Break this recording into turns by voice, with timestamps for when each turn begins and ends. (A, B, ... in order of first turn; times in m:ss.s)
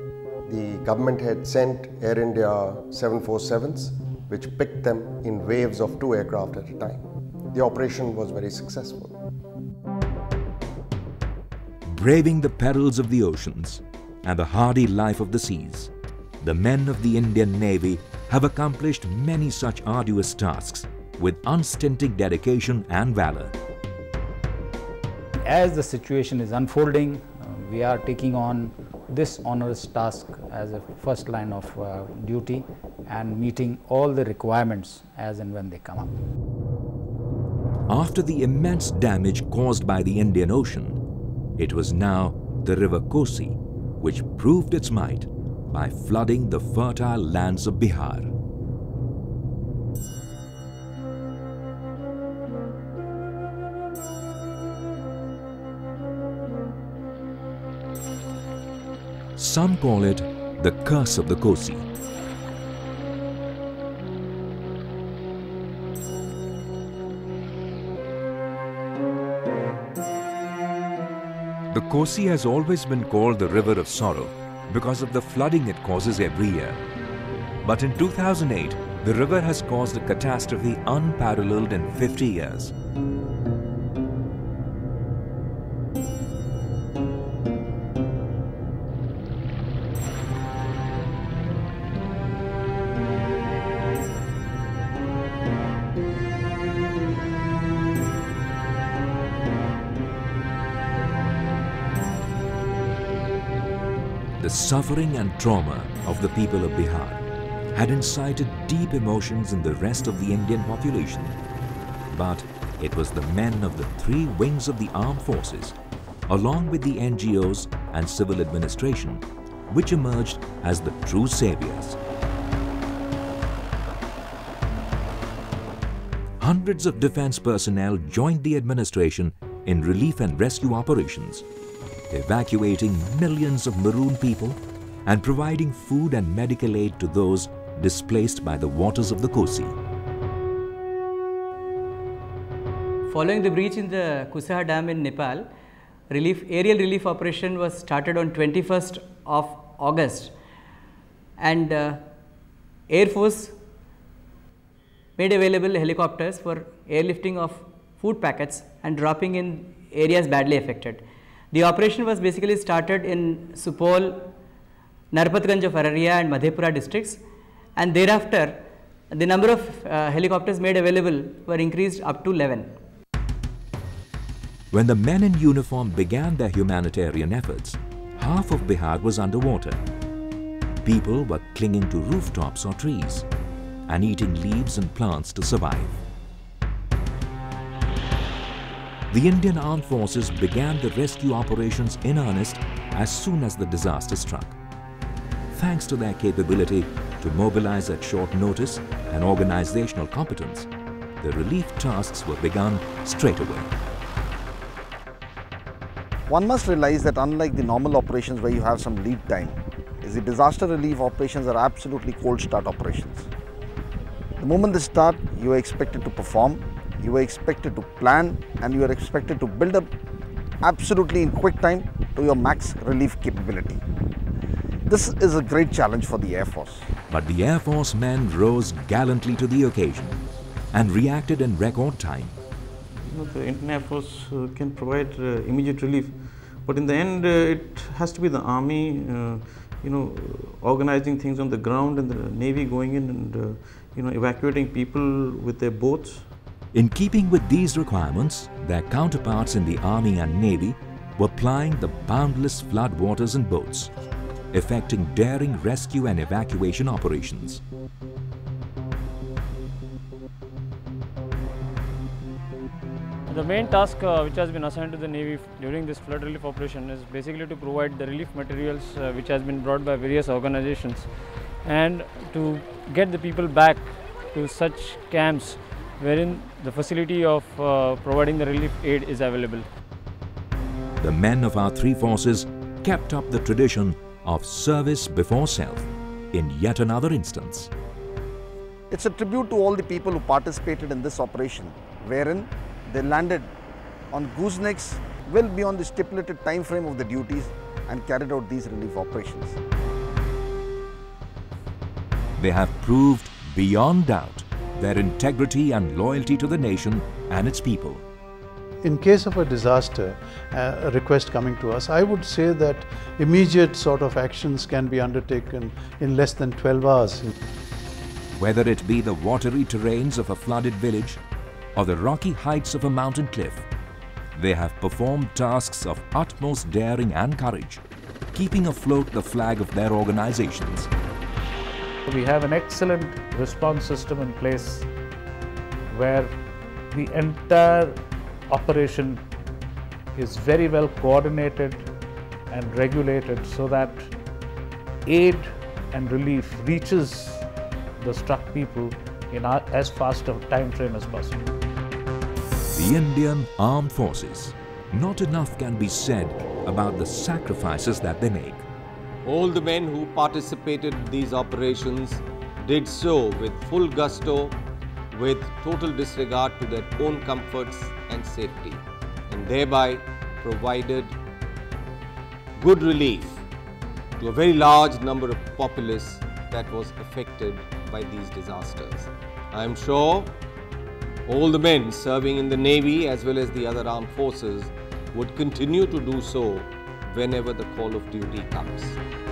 0:00.5-0:09.2 A
0:11.8-0:23.5 B
0:25.4-0:36.2 C
0:37.9-0:41.0 B
0:41.6-0:48.3 B
0:59.4-1:01.8 B
1:11.7-1:16.8 B
1:17.6-1:22.7 B
1:44.4-1:47.2 B
1:47.7-1:51.4 B
1:52.1-1:55.8 B
1:56.3-2:02.0 B
2:06.4-2:11.4 B
2:12.1-2:19.8 B
2:23.1-2:25.5 D
2:26.1-2:30.3 D
2:31.4-2:32.1 D
2:32.9-2:33.6 D
2:35.2-2:44.3 D
2:45.1-2:47.2 D
2:47.8-2:52.7 D
2:54.7-2:59.8 B
3:00.8-3:03.2 B
3:03.9-3:06.0 B
3:09.1-3:14.6 B
3:15.5-3:20.7 B
3:21.2-3:23.7 B
3:26.3-3:33.3 E
3:34.4-3:39.9 E
3:40.6-3:43.8 E
3:44.8-3:46.9 E
3:47.1-3:50.2 B
3:50.7-3:52.4 B
3:53.0-4:06.3 F
4:06.7-4:13.9 B
4:14.5-4:17.6 B
4:23.3-4:31.1 G
4:31.6-4:39.6 G
4:41.0-4:47.7 B
4:48.9-4:53.5 E
4:54.1-4:59.6 E
5:02.4-5:08.0 B
5:08.8-5:17.3 H
5:18.3-5:21.2 B
5:21.7-5:23.6 B
5:24.3-5:27.8 B
5:28.3-5:30.9 B
5:32.0-5:34.9 I
5:35.9-5:36.3 I
5:36.9-5:38.0 I
5:38.5-5:39.2 I
5:40.1-5:41.9 I
5:42.5-5:44.1 I
5:45.0-5:47.5 I
5:48.0-5:51.5 I
5:52.7-5:58.6 B
5:59.2-6:04.6 J
6:05.1-6:11.2 J
6:12.6-6:13.4 J
6:14.2-6:20.4 J
6:21.2-6:29.0 J